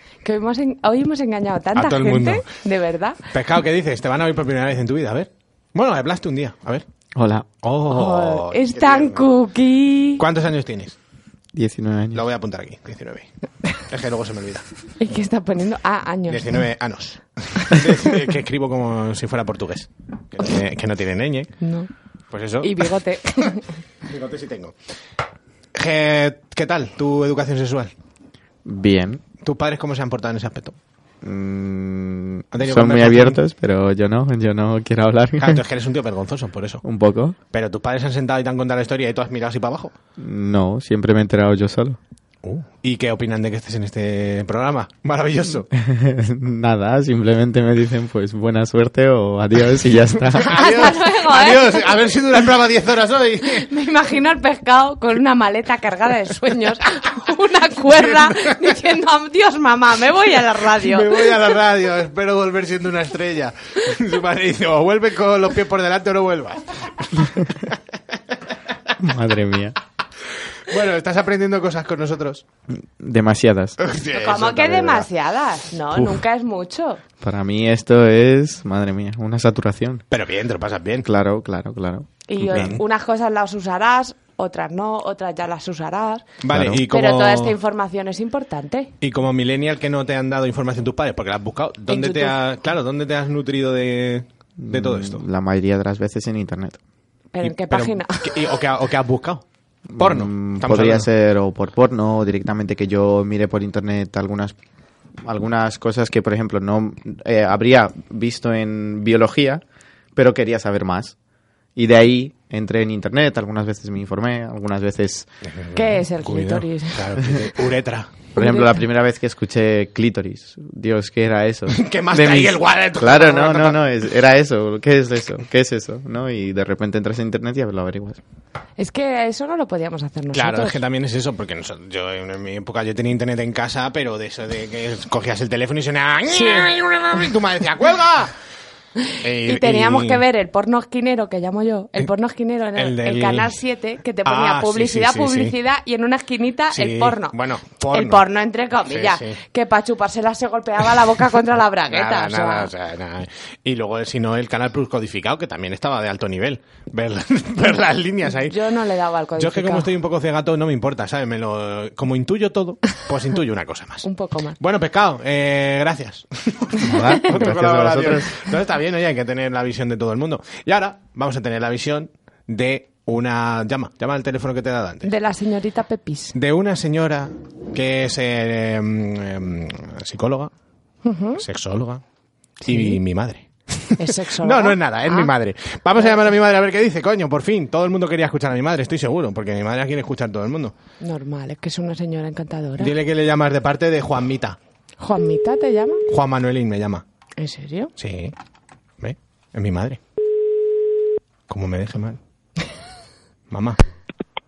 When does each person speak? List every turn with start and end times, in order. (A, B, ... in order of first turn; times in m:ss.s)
0:00.2-0:03.2 A
0:01.8-0:02.5 B
0:03.3-0:06.8 B
0:07.2-0:07.5 C
0:07.6-0:09.3 B
0:07.9-0:10.2 A
0:10.2-0:11.0 B
0:11.5-0:12.2 C
0:12.1-0:14.7 B
0:15.0-0:16.5 A
0:16.3-0:21.5 B
0:21.6-0:21.9 A
0:22.3-0:22.9 B
0:22.6-0:23.6 A
0:24.1-0:24.8 B
0:25.7-0:27.9 B
0:28.6-0:29.2 C
0:29.4-0:30.8 B
0:31.2-0:35.6 C
0:32.5-0:33.4 B
0:35.4-0:36.8 B
0:36.8-0:37.4 C
0:37.5-0:40.0 B
0:40.2-0:42.0 C
0:42.4-0:45.7 B
0:45.7-0:50.6 C
0:50.3-0:53.7 B
0:50.5-0:51.9 A
0:53.6-1:01.4 A
0:57.9-0:58.8 B
1:00.7-1:07.8 B
1:09.0-1:09.8 C
1:10.7-1:12.4 B
1:12.9-1:13.8 C
1:13.8-1:15.1 B
1:14.1-1:17.0 A
1:17.2-1:20.0 C
1:20.1-1:21.1 B
1:21.0-1:22.7 C
1:22.3-1:26.3 A
1:22.4-1:22.8 B
1:26.4-1:27.6 B
1:26.5-1:26.8 C
1:26.9-1:28.9 A
1:29.0-1:35.2 B
1:31.9-1:32.4 A
1:34.6-1:36.8 C
1:37.3-1:38.3 A
1:37.4-1:39.4 B
1:39.9-1:44.6 C
1:40.0-1:41.1 B
1:45.2-1:49.6 C
1:50.2-1:51.2 C
1:51.8-1:55.3 C
1:55.5-1:58.2 B
1:55.8-1:57.1 A
1:58.4-2:08.2 C
1:58.4-1:58.8 A
2:01.7-2:03.8 B
2:08.8-2:10.8 A
2:10.3-2:18.3 B
2:16.3-2:16.7 A
2:19.2-2:27.4 A
2:19.2-2:20.2 B
2:22.8-2:23.6 B
2:24.2-2:25.6 B
2:26.7-2:28.3 B
2:27.9-2:32.7 A
2:28.8-2:29.4 B
2:31.9-2:38.6 B
2:38.5-2:39.9 A
2:39.4-2:44.1 B
2:44.0-2:44.6 A
2:44.6-2:55.1 B
2:46.8-2:48.3 C
2:55.0-2:56.4 A
2:56.3-3:00.5 B
3:01.0-3:01.4 A
3:01.4-3:02.0 B
3:02.6-3:03.0 A
3:02.6-3:10.7 B
3:04.0-3:05.3 A
3:11.0-3:13.0 A
3:12.8-3:14.6 B
3:15.0-3:16.0 A
3:16.1-3:17.0 B
3:17.4-3:17.9 A
3:18.0-3:18.4 B
3:19.0-3:20.0 B
3:21.5-3:22.2 B
3:23.5-3:23.8 B